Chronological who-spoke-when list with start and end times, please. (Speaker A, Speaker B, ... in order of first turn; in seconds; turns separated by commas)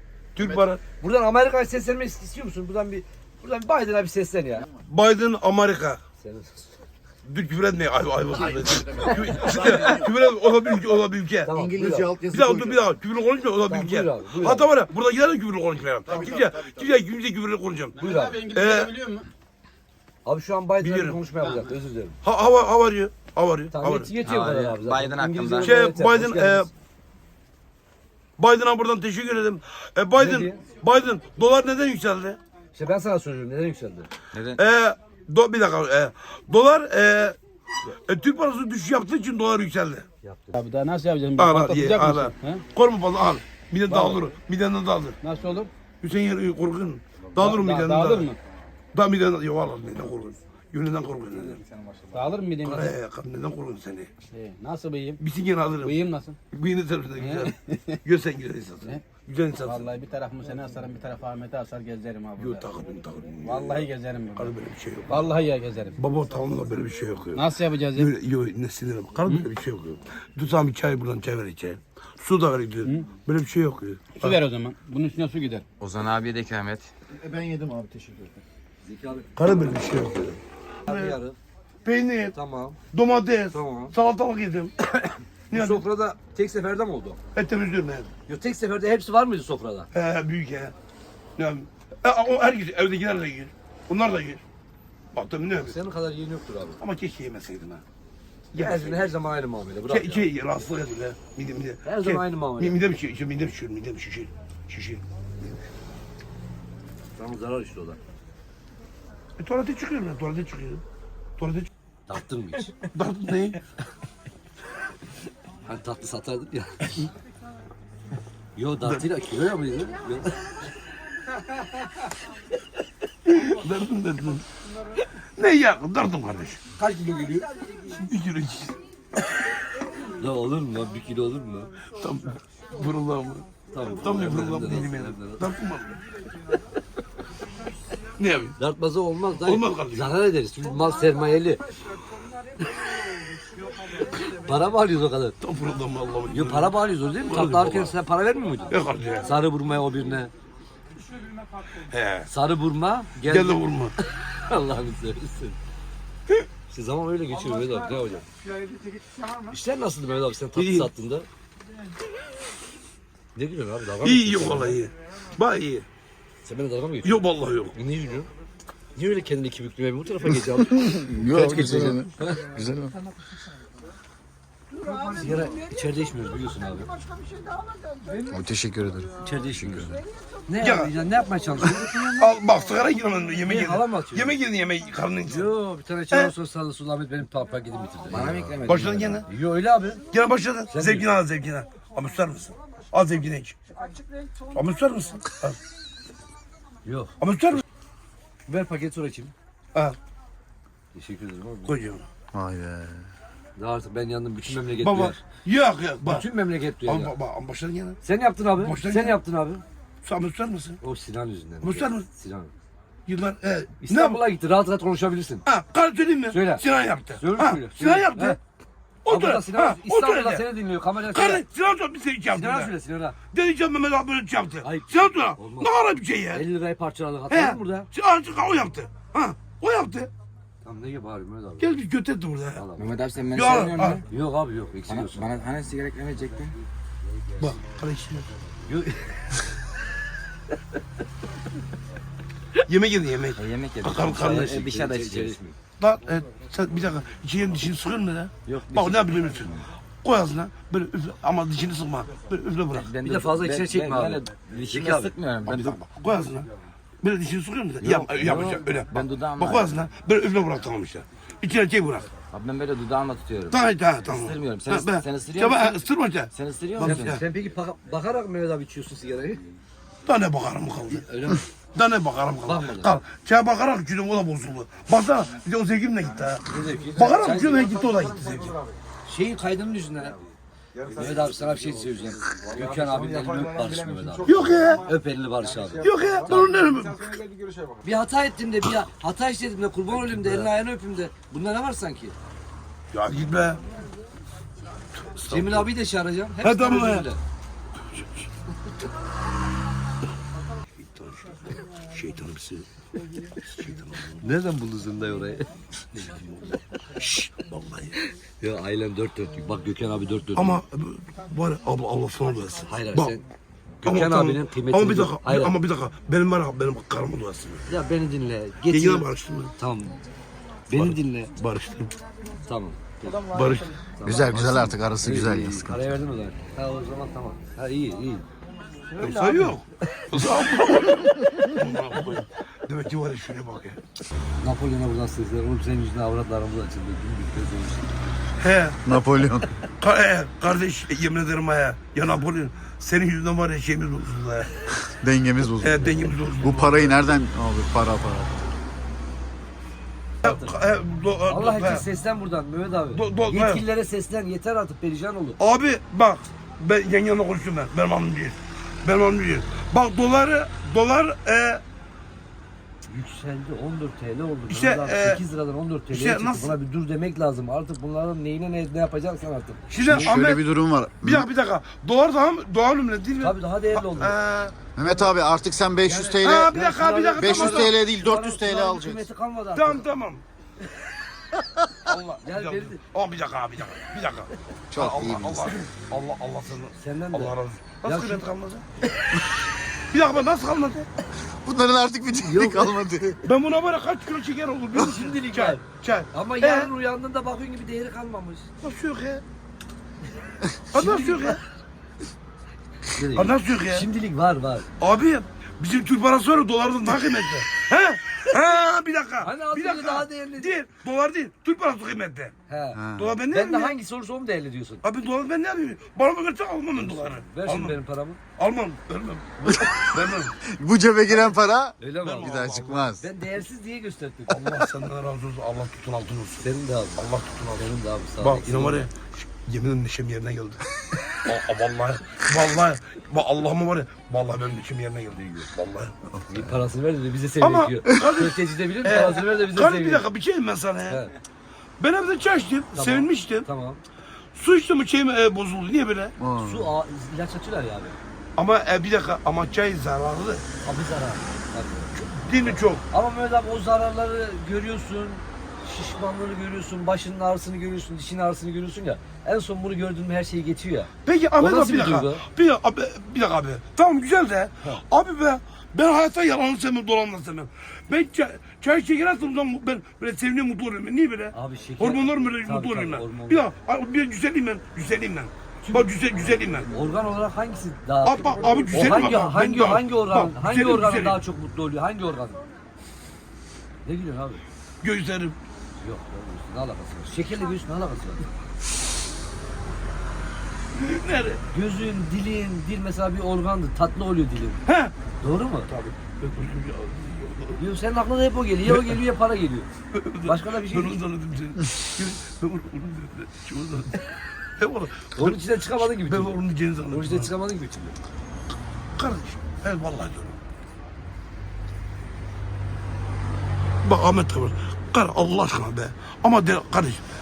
Speaker A: 0.3-0.8, Speaker B: 0.4-0.6, Speaker C: 1.0-4.7, Speaker A: 4.8-6.0, Speaker C: 6.2-6.8, Speaker A: 7.3-11.5, Speaker B: 8.3-10.1, Speaker C: 9.2-9.8, Speaker C: 11.4-12.2, Speaker B: 11.5-12.9, Speaker A: 12.3-18.0, Speaker C: 13.7-14.7, Speaker B: 16.1-16.9, Speaker D: 18.0-19.3, Speaker C: 18.0-18.4, Speaker A: 18.5-18.9, Speaker C: 20.2-22.2, Speaker A: 20.8-21.2, Speaker A: 22.2-24.1, Speaker C: 23.7-26.7, Speaker E: 24.2-25.8, Speaker A: 25.6-26.7, Speaker A: 28.4-32.4, Speaker C: 30.2-30.6, Speaker C: 32.7-34.1, Speaker E: 34.3-34.6, Speaker A: 34.6-37.4, Speaker A: 38.1-40.1, Speaker C: 40.2-40.6, Speaker D: 40.5-42.6, Speaker A: 41.4-45.2, Speaker D: 43.9-44.3, Speaker D: 45.2-45.7, Speaker A: 46.0-48.3, Speaker D: 47.4-48.4, Speaker A: 48.9-51.6, Speaker D: 52.1-53.0, Speaker A: 52.6-54.1, Speaker D: 54.3-55.2, Speaker A: 55.2-59.9, Speaker D: 55.8-56.4, Speaker D: 57.2-58.0, Speaker D: 59.6-62.6, Speaker A: 62.4-65.3, Speaker D: 63.4-64.5, Speaker D: 65.1-66.0, Speaker A: 66.0-74.4, Speaker D: 67.3-68.1, Speaker D: 74.2-75.7, Speaker E: 75.8-76.9, Speaker B: 77.1-78.4, Speaker C: 78.8-79.3, Speaker A: 79.4-81.2, Speaker C: 80.9-81.4, Speaker A: 81.8-82.3, Speaker C: 82.3-82.8, Speaker A: 82.9-85.8, Speaker C: 83.5-84.0, Speaker C: 85.5-87.2, Speaker A: 87.3-88.1, Speaker C: 88.3-89.9, Speaker A: 89.9-90.7, Speaker A: 91.4-94.4, Speaker A: 95.1-95.8, Speaker C: 95.6-96.8, Speaker A: 96.8-97.8, Speaker A: 98.5-99.1, Speaker C: 98.5-100.3, Speaker A: 99.9-105.0, Speaker C: 101.8-102.8, Speaker C: 107.2-108.0, Speaker A: 109.4-110.8, Speaker A: 111.4-111.7, Speaker C: 112.1-112.8, Speaker A: 112.9-113.6, Speaker C: 115.7-116.9, Speaker C: 118.6-120.4, Speaker A: 123.3-124.5, Speaker A: 125.4-126.6, Speaker C: 126.8-127.5, Speaker A: 127.9-128.8, Speaker C: 130.2-131.7, Speaker A: 132.0-136.0, Speaker C: 133.7-135.5, Speaker A: 138.2-138.6, Speaker C: 138.6-141.6, Speaker A: 139.4-140.1, Speaker C: 143.9-145.4, Speaker A: 145.4-147.9, Speaker C: 146.3-150.3, Speaker A: 148.7-149.3, Speaker A: 151.8-152.3, Speaker C: 152.3-153.6, Speaker A: 153.3-153.9, Speaker C: 154.2-155.6, Speaker C: 156.7-158.3, Speaker C: 159.4-161.3, Speaker A: 160.6-160.9, Speaker C: 163.3-164.8, Speaker A: 164.0-165.8, Speaker C: 166.4-168.3, Speaker A: 167.0-167.8, Speaker C: 168.9-172.4, Speaker B: 170.6-172.9, Speaker A: 171.3-172.1, Speaker C: 174.8-176.9, Speaker B: 178.2-180.0, Speaker C: 179.2-182.1, Speaker A: 180.6-180.9, Speaker A: 181.9-185.5, Speaker C: 183.5-184.3, Speaker C: 185.3-188.6, Speaker E: 188.1-189.2, Speaker B: 188.2-189.0, Speaker A: 188.7-189.3, Speaker C: 189.2-190.0, Speaker A: 190.1-193.6, Speaker C: 190.7-191.1, Speaker A: 194.5-195.6, Speaker C: 196.8-197.1, Speaker A: 197.2-197.6, Speaker C: 198.5-199.3, Speaker C: 200.9-201.7, Speaker A: 201.7-202.1, Speaker B: 202.3-203.1, Speaker C: 203.6-205.2, Speaker A: 204.7-206.3, Speaker C: 206.1-207.2, Speaker A: 206.8-208.0, Speaker C: 208.0-209.6, Speaker A: 208.6-209.2, Speaker A: 210.0-210.8, Speaker C: 210.8-212.5, Speaker A: 211.6-212.1, Speaker A: 213.1-214.2, Speaker C: 213.8-215.4, Speaker A: 215.5-218.4, Speaker C: 216.3-218.4, Speaker A: 219.1-220.4, Speaker C: 219.1-221.4, Speaker A: 221.1-222.7, Speaker C: 222.3-223.2, Speaker A: 223.3-226.4, Speaker C: 224.6-225.7, Speaker C: 226.3-227.9, Speaker A: 227.3-230.1, Speaker C: 230.6-231.8, Speaker A: 231.6-232.6, Speaker C: 232.6-232.9, Speaker E: 232.8-234.0, Speaker A: 233.3-234.0, Speaker C: 234.1-235.3, Speaker E: 234.9-236.6, Speaker A: 237.4-238.3, Speaker C: 238.7-239.4, Speaker A: 242.7-244.6, Speaker E: 243.4-245.4, Speaker C: 244.1-245.6, Speaker A: 245.8-252.9, Speaker E: 248.5-249.4, Speaker E: 252.7-255.8, Speaker C: 253.0-255.2, Speaker A: 255.4-256.5, Speaker A: 257.0-262.1, Speaker E: 257.8-259.9, Speaker C: 258.1-258.7, Speaker E: 262.2-265.8, Speaker A: 263.5-267.2, Speaker E: 266.3-267.2, Speaker C: 266.8-269.4, Speaker A: 270.1-271.1, Speaker C: 270.9-271.5, Speaker A: 271.8-278.6, Speaker C: 272.4-273.0, Speaker C: 276.5-277.7, Speaker C: 279.1-280.2, Speaker A: 280.9-281.3, Speaker C: 280.9-286.5, Speaker A: 284.2-284.9, Speaker A: 285.8-287.2, Speaker C: 287.8-292.1, Speaker A: 290.1-290.4, Speaker A: 292.9-293.6, Speaker A: 295.0-295.7, Speaker C: 295.3-297.2, Speaker A: 296.4-297.1, Speaker A: 297.9-298.3, Speaker A: 300.8-302.7, Speaker A: 303.4-304.2, Speaker C: 304.2-306.5, Speaker A: 307.0-308.0, Speaker C: 308.4-310.6, Speaker A: 310.4-313.2, Speaker C: 312.6-313.2, Speaker C: 313.8-315.5, Speaker A: 313.8-317.7, Speaker C: 317.7-320.0, Speaker A: 318.7-319.5, Speaker C: 320.7-321.3, Speaker A: 320.7-321.9, Speaker C: 322.4-323.4, Speaker A: 323.3-323.7, Speaker C: 324.0-328.3, Speaker B: 324.0-325.9, Speaker A: 324.3-324.7, Speaker C: 328.9-330.3, Speaker A: 329.0-333.8, Speaker C: 334.4-337.9, Speaker A: 338.4-338.8, Speaker B: 338.9-339.5, Speaker A: 339.8-344.5, Speaker B: 344.9-348.5, Speaker A: 345.6-347.0, Speaker C: 350.2-350.6, Speaker A: 350.2-351.9, Speaker C: 351.3-355.4, Speaker A: 352.9-353.6, Speaker A: 355.4-361.6, Speaker C: 362.9-370.1, Speaker A: 364.5-365.2, Speaker A: 365.9-366.6, Speaker A: 369.7-370.4, Speaker B: 369.8-371.3, Speaker A: 371.0-374.6, Speaker C: 373.2-374.2, Speaker B: 374.8-376.6, Speaker C: 375.9-379.9, Speaker A: 376.2-377.8, Speaker B: 377.2-379.1, Speaker A: 379.6-380.2, Speaker A: 381.9-388.6, Speaker C: 382.2-382.8, Speaker B: 384.7-385.6, Speaker C: 386.8-388.3, Speaker A: 389.9-390.9, Speaker B: 391.2-393.2, Speaker C: 392.2-392.8, Speaker A: 393.2-396.7, Speaker C: 394.8-398.5, Speaker A: 398.6-399.2, Speaker A: 400.7-401.4, Speaker C: 400.8-401.4, Speaker C: 402.9-404.7, Speaker A: 403.2-403.9, Speaker A: 404.8-412.3, Speaker C: 409.2-410.6, Speaker C: 412.5-414.8, Speaker B: 412.8-413.2, Speaker A: 413.0-413.8, Speaker A: 414.8-417.8, Speaker C: 416.8-418.2, Speaker A: 418.4-420.3, Speaker B: 419.4-419.8, Speaker B: 420.4-423.1, Speaker C: 421.8-422.4, Speaker A: 422.0-422.9, Speaker C: 423.0-424.6, Speaker A: 424.3-426.5, Speaker C: 426.4-427.0, Speaker A: 427.0-427.7, Speaker C: 427.6-428.9, Speaker A: 428.2-436.0, Speaker C: 435.2-435.5, Speaker B: 436.1-436.6, Speaker C: 436.3-440.1, Speaker A: 437.4-441.0, Speaker C: 440.9-441.1, Speaker A: 441.8-443.5, Speaker C: 442.8-443.8, Speaker A: 444.4-446.1, Speaker B: 446.2-446.8, Speaker C: 446.4-448.0, Speaker A: 448.4-450.4, Speaker C: 450.6-462.2, Speaker A: 451.9-452.8, Speaker A: 461.1-476.8, Speaker C: 471.3-473.5, Speaker C: 475.6-482.4, Speaker A: 478.0-481.2, Speaker C: 483.8-484.4, Speaker A: 484.8-485.4, Speaker C: 485.8-488.3, Speaker A: 490.8-491.4, Speaker C: 491.5-494.6, Speaker A: 494.7-494.9, Speaker C: 495.2-495.7, Speaker A: 495.7-497.6, Speaker C: 497.6-499.7, Speaker A: 498.7-499.0, Speaker A: 499.9-504.0, Speaker C: 500.2-501.0, Speaker A: 504.6-507.3, Speaker C: 505.2-508.0, Speaker A: 509.0-510.4, Speaker A: 513.8-517.0